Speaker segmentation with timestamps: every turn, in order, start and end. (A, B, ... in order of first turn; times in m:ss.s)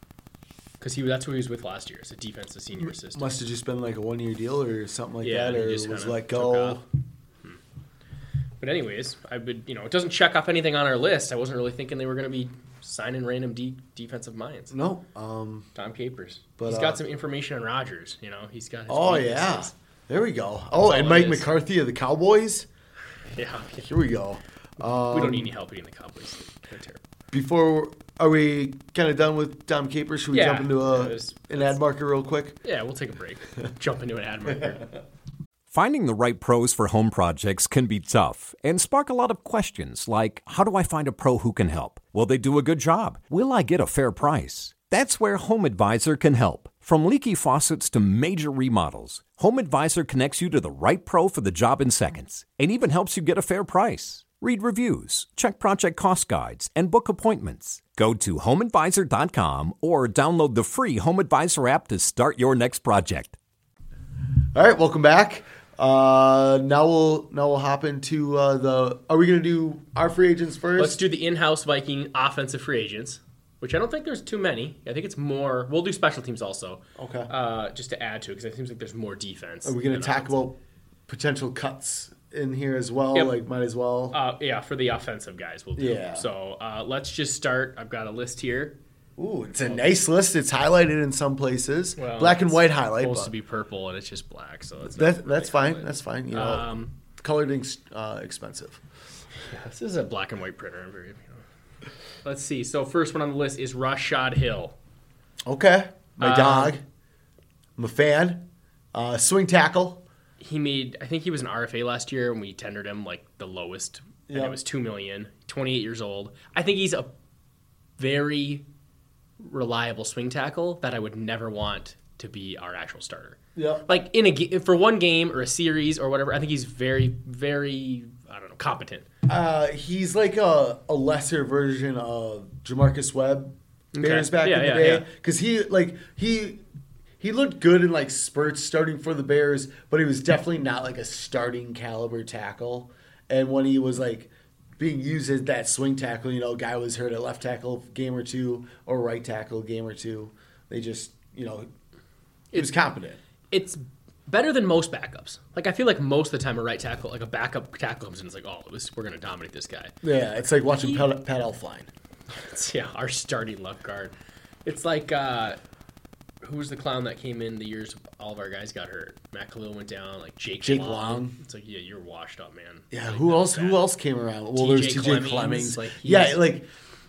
0:00.8-0:03.3 A
0:02.8-0:06.8 B
0:05.2-0:06.8 A
0:08.6-0:14.8 A
0:14.7-0:15.7 B
0:15.8-0:19.7 A
0:16.6-0:17.0 B
0:18.9-0:22.7 B
0:20.8-0:21.5 A
0:23.4-0:23.9 A
0:23.8-0:25.5 B
0:25.1-0:27.0 A
0:27.3-0:32.6 B
0:30.3-0:31.8 A
0:32.6-0:34.9 A
0:35.7-1:03.4 C
1:04.5-1:11.0 B
1:10.8-1:20.4 A
1:17.0-1:17.3 B
1:19.6-1:24.2 B
1:24.1-1:28.8 A
1:25.8-1:26.3 B
1:29.2-1:33.3 B
1:32.0-1:36.9 A
1:34.9-1:38.8 B
1:39.5-1:41.4 A
1:42.2-1:44.8 A
1:45.5-1:46.8 B
1:46.2-1:46.8 A
1:47.8-1:50.0 B
1:50.4-1:57.1 A
1:54.3-1:54.6 B
1:58.0-1:58.7 A
1:59.4-2:09.1 A
2:03.6-2:03.9 B
2:09.3-2:16.6 B
2:13.9-2:15.1 A
2:17.2-2:31.7 B
2:32.5-2:33.2 B
2:33.5-2:40.0 A
2:40.0-2:41.9 B
2:40.7-2:41.1 A
2:42.3-2:44.1 A
2:44.6-2:45.6 A
2:46.4-2:53.8 A
2:50.6-2:51.4 B
2:52.9-2:56.7 B
2:54.6-2:56.4 A